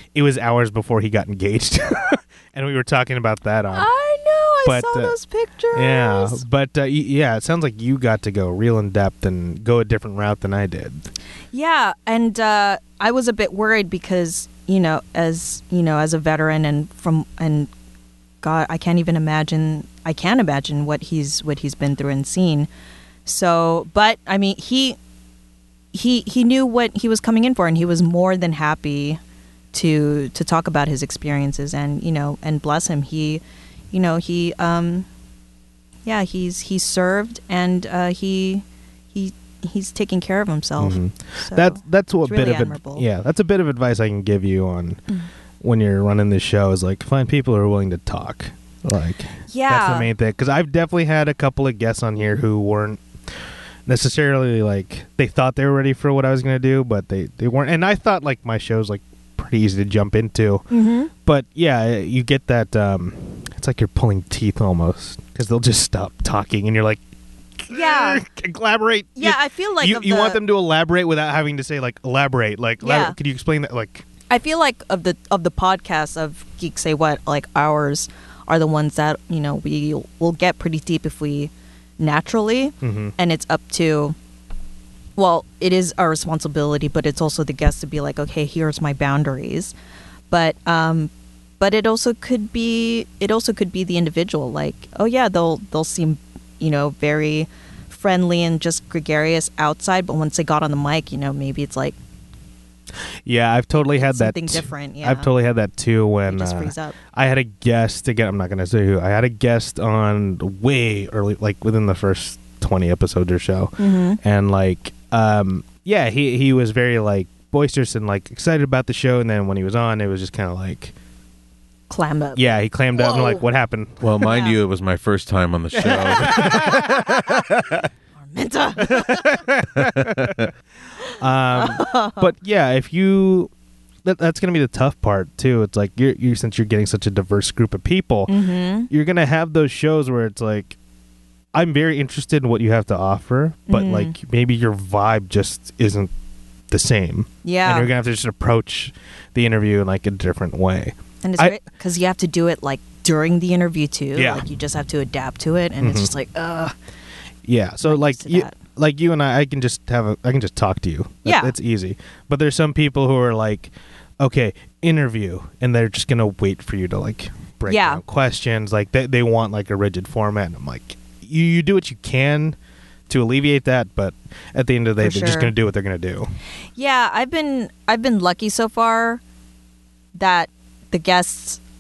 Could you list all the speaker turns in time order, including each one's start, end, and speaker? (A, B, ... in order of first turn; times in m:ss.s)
0:00.1-0:03.9 A
0:03.7-0:06.4 B
0:04.6-0:05.1 A
0:05.7-0:11.1 A
0:11.5-0:17.7 B
0:18.4-0:22.7 B
0:23.2-0:25.0 B
0:25.9-0:29.2 B
0:29.7-0:33.4 B
0:33.9-0:35.0 B
0:36.0-0:43.0 B
0:40.8-0:45.0 A
0:45.6-0:53.0 A
0:49.5-0:50.1 B
0:53.9-1:00.7 A
1:00.7-1:01.1 B
1:01.2-1:07.0 A
1:07.6-1:14.0 A
1:07.7-1:08.2 B
1:09.2-1:10.4 B
1:12.8-1:13.2 B
1:14.3-1:24.1 B
1:22.8-1:23.1 A
1:25.2-1:29.7 B
1:30.3-1:42.0 B
1:43.2-2:00.9 A
1:43.7-1:45.3 B
1:46.3-1:47.0 B
1:53.8-1:54.2 B
2:01.9-2:02.4 B
2:02.4-2:04.0 A
2:02.9-2:03.4 B
2:04.0-2:07.6 C
2:04.2-2:04.6 B
2:05.7-2:07.0 A
2:05.8-2:06.8 B
2:08.2-2:09.4 B
2:08.8-2:10.4 A
2:09.8-2:10.4 C
2:11.2-2:13.5 A
2:11.5-2:12.3 B
2:14.0-2:18.3 A
2:18.3-2:18.9 B
2:18.9-2:20.8 A
2:21.5-2:26.1 A
2:23.7-2:24.1 B
2:26.7-2:31.6 A
2:27.4-2:27.9 B
2:31.2-2:36.7 B
2:34.1-2:34.4 A
2:35.8-2:36.1 A
2:37.4-2:52.6 A
2:37.8-2:38.5 B
2:41.2-2:41.5 B
2:47.7-2:48.0 B
2:53.1-2:56.3 A
2:55.0-2:55.5 B
2:56.8-2:59.2 B
3:00.1-3:01.6 B